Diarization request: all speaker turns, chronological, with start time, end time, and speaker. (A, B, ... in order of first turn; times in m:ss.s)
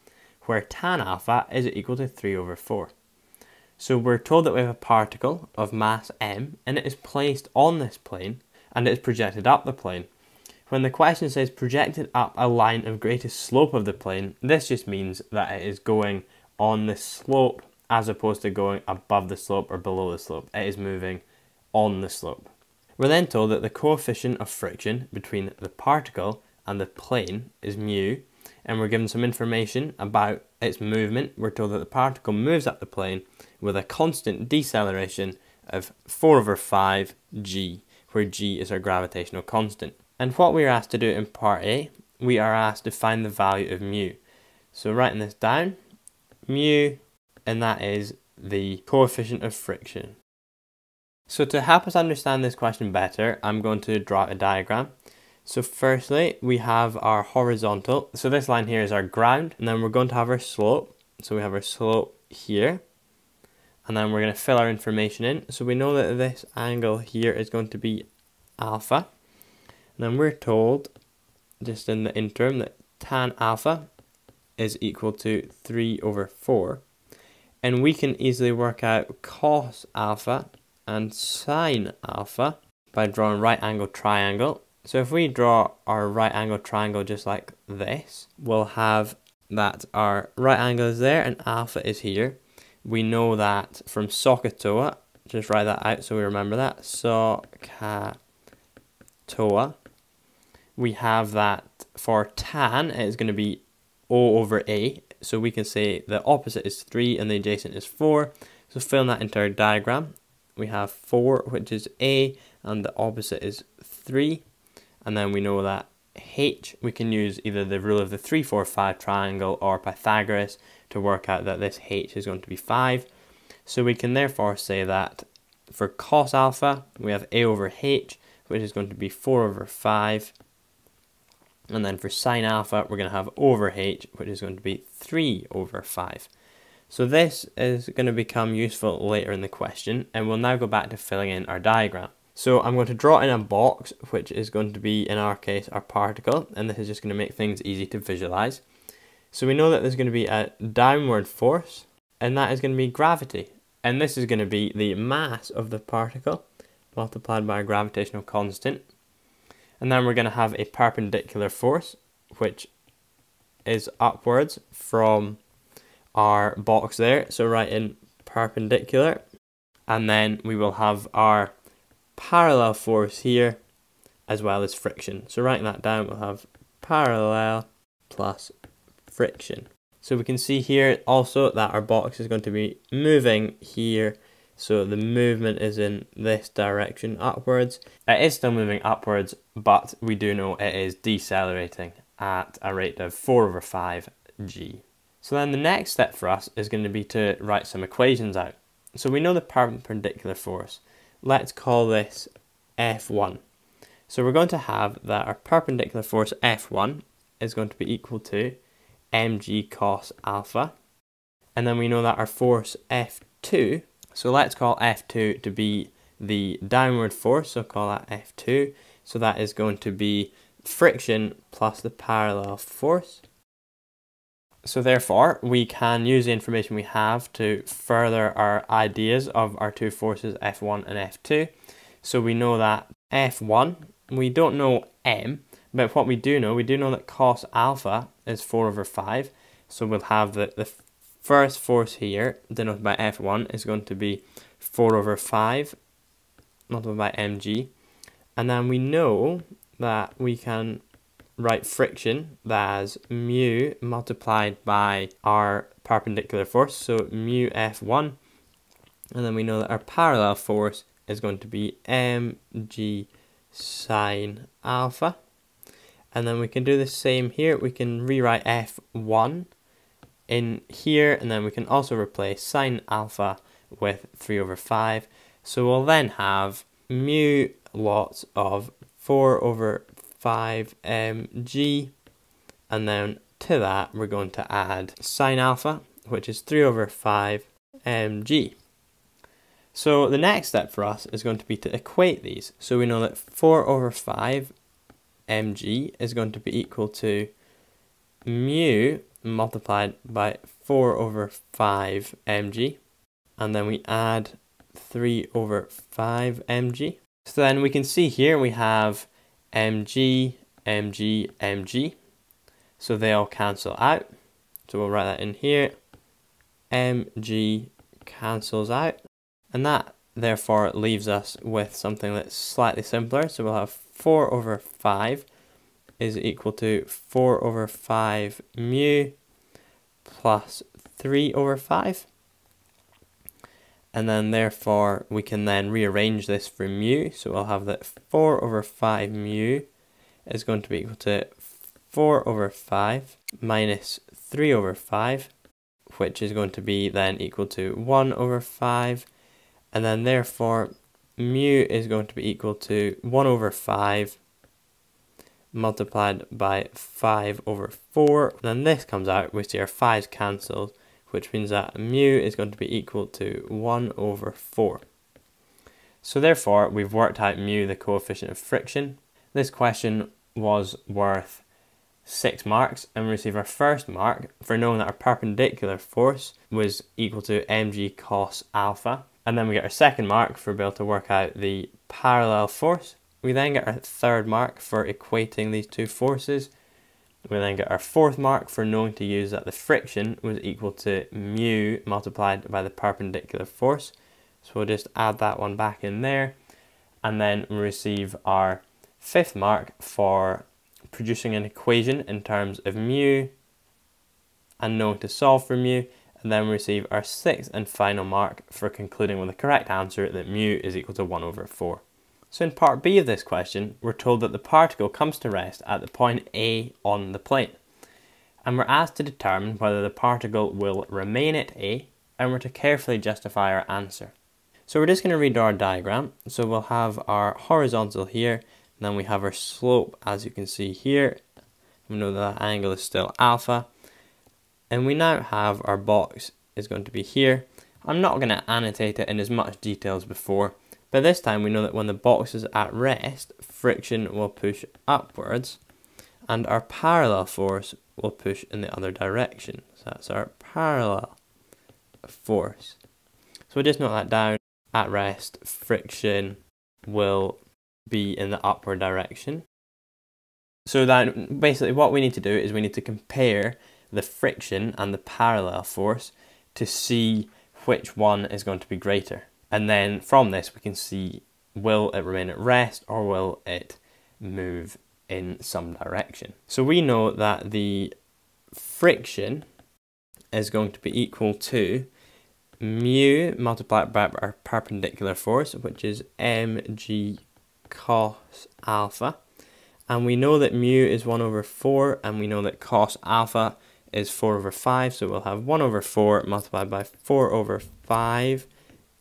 0:00.4-0:02.9 A
0:03.8-0:10.1 A
0:10.7-0:44.2 A
0:44.7-0:45.8 A
0:46.5-0:50.2 A
0:51.3-0:54.9 A
0:55.4-1:02.8 A
1:03.8-1:08.0 A
1:08.6-1:09.1 A
1:10.0-1:10.9 A
1:11.6-1:13.9 A
1:14.6-1:16.8 A
1:17.6-1:38.2 A
1:39.3-1:39.8 A
1:40.8-1:54.4 A
1:55.0-2:03.1 A
2:03.6-2:10.3 A
2:11.7-2:16.3 A
2:16.9-2:28.6 A
2:29.3-2:38.8 A
2:39.8-2:42.7 A
2:43.6-2:45.4 A
2:46.1-2:49.2 A
2:49.9-2:51.5 A
2:52.2-2:53.6 A
2:54.3-2:58.5 A
2:59.1-3:23.4 A
3:24.1-3:28.6 A
3:29.1-3:30.7 A
3:31.6-3:43.2 A
3:44.6-3:51.5 A
3:52.0-4:05.8 A
4:06.7-4:07.7 A
4:08.4-4:10.8 A
4:11.4-4:18.2 A
4:19.1-4:25.2 A
4:26.1-4:29.5 A
4:30.3-4:41.9 A
4:42.7-4:48.6 A
4:49.7-4:54.5 A
4:55.3-4:57.3 A
4:58.2-5:02.8 A
5:03.4-5:12.0 A
5:12.8-5:14.0 A
5:14.7-5:15.7 A
5:16.7-5:19.0 A
5:19.5-5:25.2 A
5:26.0-5:29.2 A
5:30.0-5:32.1 A
5:33.9-5:39.7 A
5:40.3-5:45.3 A
5:45.9-5:49.1 A
5:49.7-5:54.2 A
5:55.5-6:04.8 A
6:06.0-6:11.4 A
6:12.0-6:26.5 A
6:27.3-6:36.3 A
6:37.0-6:43.3 A
6:44.6-6:57.6 A
6:58.4-7:04.1 A
7:04.7-7:11.2 A
7:11.9-7:13.7 A
7:14.7-7:25.6 A
7:26.3-7:31.2 A
7:32.0-7:32.8 A
7:33.5-7:39.4 A
7:40.7-7:57.9 A
7:58.5-7:59.4 A
8:00.3-8:01.9 A
8:02.6-8:09.2 A
8:09.9-8:18.5 A